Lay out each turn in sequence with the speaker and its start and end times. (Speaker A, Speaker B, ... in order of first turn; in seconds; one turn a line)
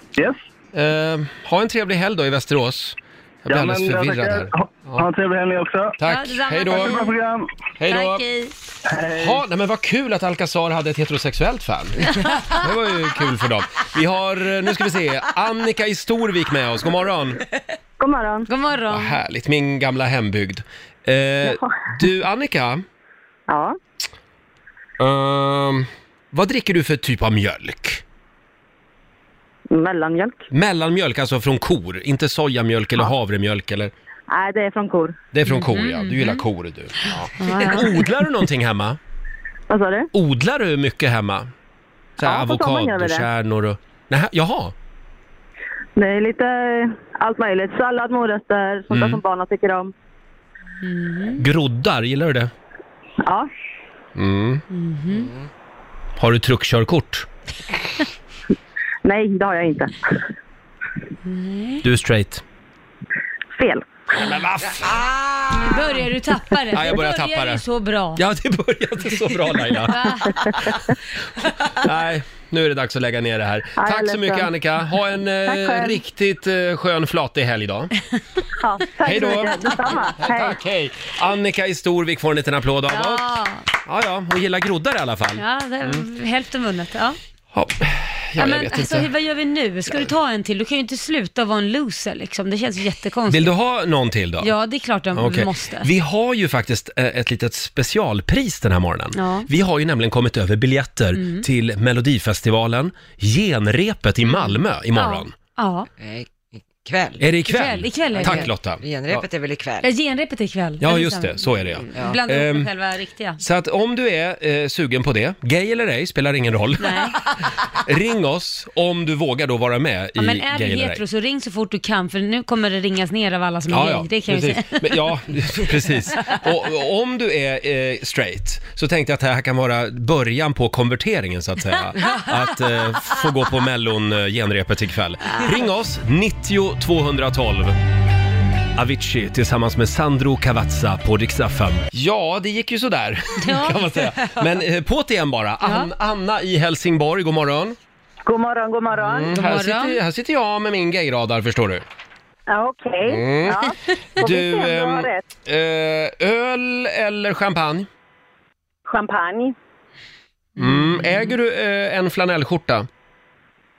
Speaker A: 0.7-5.0
Speaker B: 3.5-6.0
Speaker A: 6.0-7.1
Speaker C: 6.0-7.1
Speaker B: 6.8-7.5
Speaker A: 7.8-8.2
Speaker C: 7.9-8.5
Speaker B: 8.9-9.4
Speaker A: 9.2-17.4
Speaker C: 12.2-12.5
Speaker D: 18.0-18.5
Speaker C: 18.5-19.2
Speaker A: 18.9-22.8
Speaker D: 21.4-21.7
Speaker D: 23.5-23.8
Speaker A: 25.0-28.0
Speaker D: 29.7-30.4
Speaker A: 30.5-33.9
Speaker D: 34.3-35.1
Speaker A: 35.3-39.0
Speaker C: 35.5-36.4
Speaker C: 37.1-38.0
Speaker D: 39.7-40.1
Speaker A: 40.1-41.5
Speaker A: 42.2-44.7
Speaker D: 42.2-43.3
Speaker D: 46.0-49.9
Speaker A: 48.9-49.2
Speaker C: 50.8-51.4
Speaker A: 51.4-52.5
Speaker D: 53.2-53.5
Speaker A: 54.2-54.6
Speaker C: 54.7-55.3
Speaker A: 56.2-57.3
Speaker D: 59.0-59.9
Speaker C: 61.2-61.8
Speaker A: 61.8-62.4
Speaker D: 63.6-63.9
Speaker A: 64.1-65.9
Speaker C: 65.5-68.2
Speaker A: 66.7-67.6
Speaker A: 68.2-70.7
Speaker C: 69.9-70.6
Speaker A: 71.8-77.9
Speaker D: 73.8-74.5
Speaker D: 75.5-76.0
Speaker D: 78.6-80.6
Speaker A: 79.0-83.3
Speaker C: 82.9-83.7
Speaker A: 83.9-86.0
Speaker C: 85.4-87.2
Speaker A: 87.5-89.1
Speaker C: 88.4-93.5
Speaker A: 93.3-94.5
Speaker C: 94.4-95.9
Speaker A: 95.1-105.3
Speaker C: 99.1-99.5
Speaker C: 101.1-101.5
Speaker C: 104.3-105.9
Speaker E: 106.0-107.2
Speaker A: 107.2-109.2
Speaker C: 107.5-108.5
Speaker E: 108.1-109.9
Speaker C: 109.8-113.4
Speaker A: 110.8-112.7
Speaker A: 113.4-117.0
Speaker C: 116.8-117.2
Speaker A: 117.8-121.0
Speaker C: 120.2-125.0
Speaker A: 123.7-137.8
Speaker C: 135.3-135.6
Speaker A: 138.8-147.8
Speaker C: 143.4-144.1
Speaker C: 145.6-145.9
Speaker D: 148.3-149.3
Speaker A: 148.9-151.8
Speaker C: 149.3-150.0
Speaker D: 152.5-155.2
Speaker A: 153.1-153.6
Speaker A: 154.2-157.9
Speaker D: 158.9-159.6
Speaker A: 160.6-162.9
Speaker C: 160.6-161.2